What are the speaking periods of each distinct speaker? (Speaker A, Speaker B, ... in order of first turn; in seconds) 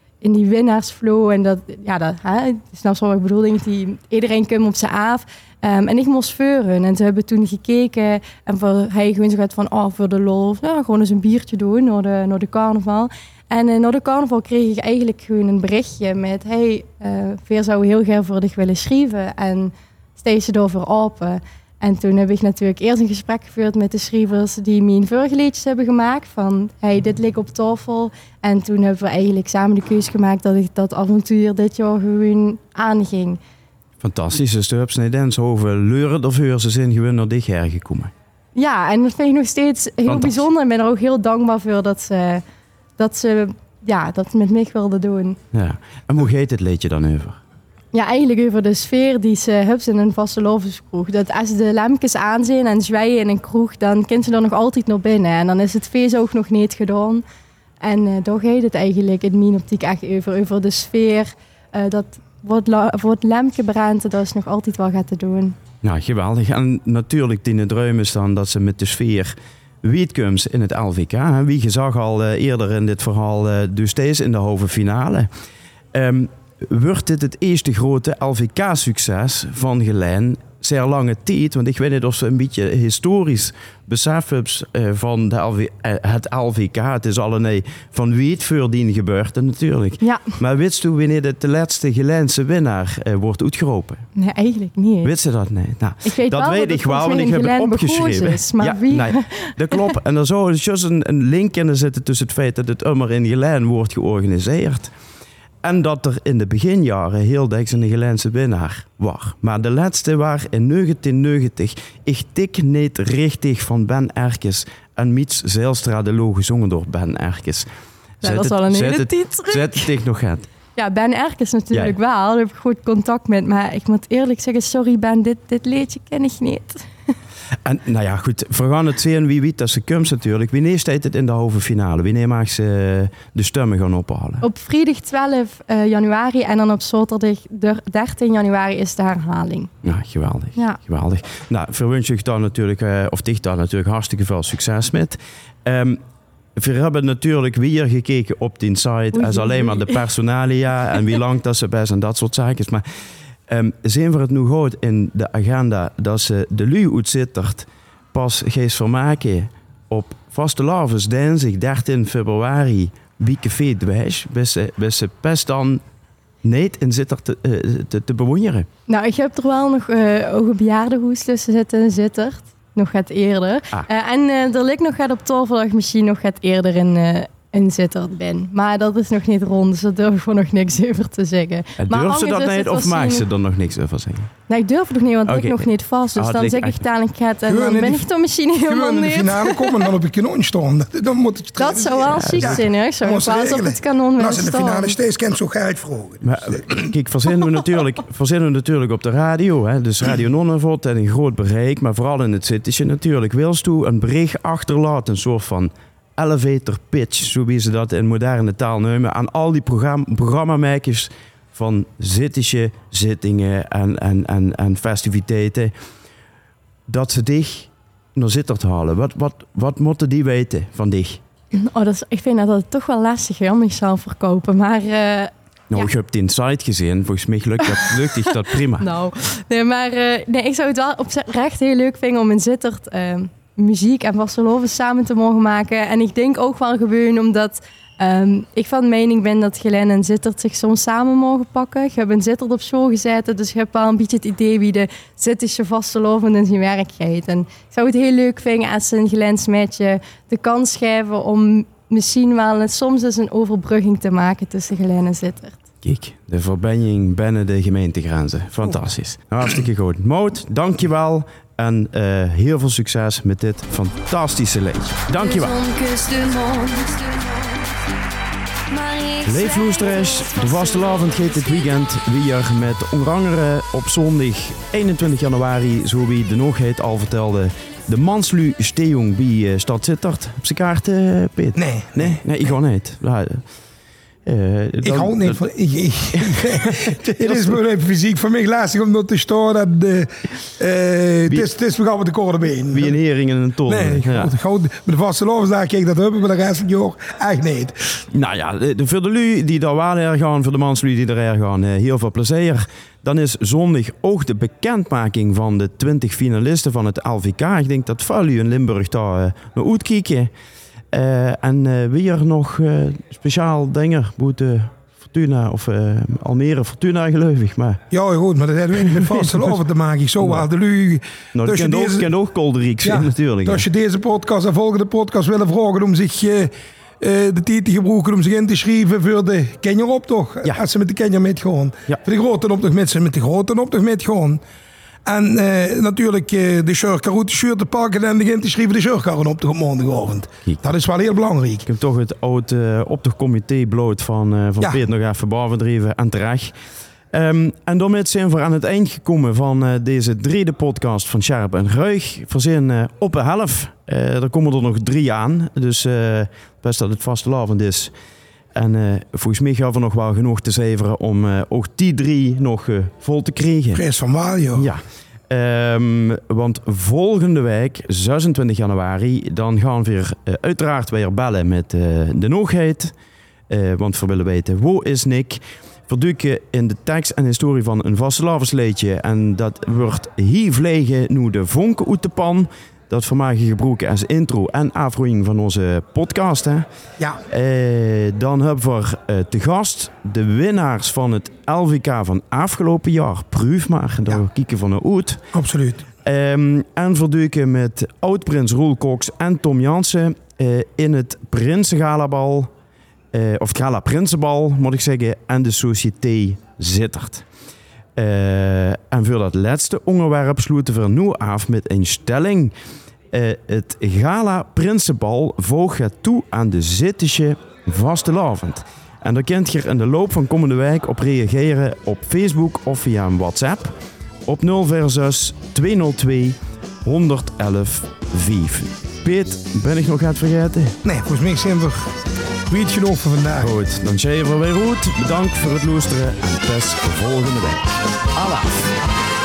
Speaker A: 0.2-33.4, 38.5-42.4, 43.0-45.4, 47.9-57.2, 57.8-65.5, 90.0-90.4, 94.1-95.1, 96.0-99.9, 118.2-119.9, 120.8-126.8, 134.4-139.7, 149.1-150.0, 168.9-183.3, 184.5-189.9, 191.6-195.0, 221.5-225.9, 227.6-255.6, 265.2-267.6, 268.7-270.7
Speaker B: 34.0-38.1, 40.0-40.5, 45.5-47.4, 65.8-75.3, 75.9-94.0, 95.0-104.9, 105.6-117.7, 118.2-120.5, 127.6-134.4, 139.8-146.0, 146.6-152.8, 153.5-165.8, 166.4-168.7, 181.8-184.3, 185.2-186.8, 192.1-192.6, 196.2-215.7, 216.9-221.2, 225.7-228.9, 255.8-265.6, 269.2-283.4, 284.2-285.5, 286.1-287.6, 292.7-294.3, 298.1-310.3, 310.9-317.8, 318.8-319.6, 320.2-320.5, 321.3-323.6, 341.6-346.5, 347.1-357.9, 358.5-363.8, 364.5-372.9, 373.5-386.6, 387.3-395.2, 396.0-402.5, 403.1-407.2, 407.9-412.5, 413.1-430.8, 433.4-438.7
Speaker C: 187.5-196.9, 281.6-282.2, 284.8-292.9, 293.6-298.0, 317.9-322.1, 322.8-334.4, 335.1-341.6, 363.7-364.7, 395.3-395.9, 430.8-431.9, 432.5-433.5